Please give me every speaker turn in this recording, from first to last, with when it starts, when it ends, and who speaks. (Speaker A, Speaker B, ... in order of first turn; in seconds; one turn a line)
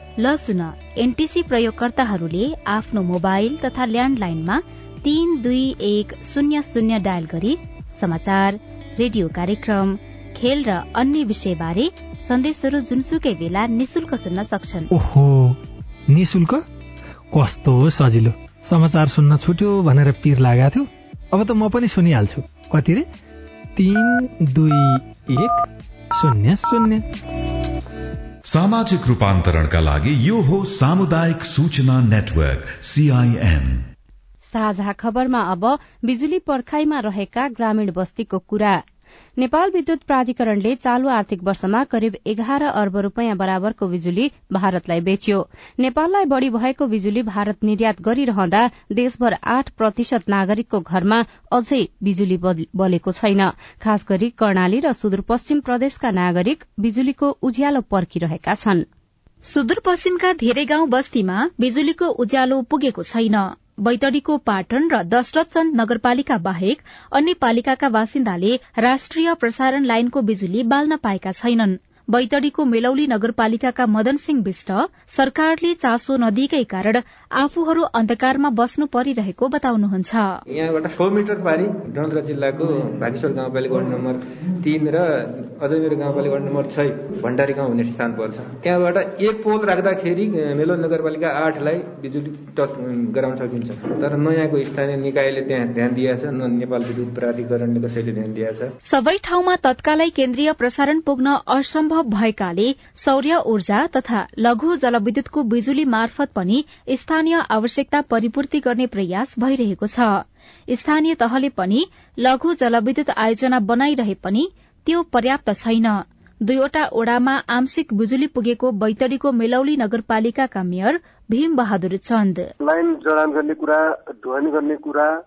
Speaker A: 0.2-14.9
Speaker B: 14.9-16.6
Speaker B: 17.3-23.1
Speaker B: 23.8-27.1
Speaker C: 28.4-33.9
Speaker D: 34.4-38.8
Speaker D: 39.4-58.8
Speaker A: 59.5-80.4
Speaker E: 80.5-98.7
Speaker A: 98.8-122.5
Speaker F: 122.6-125.1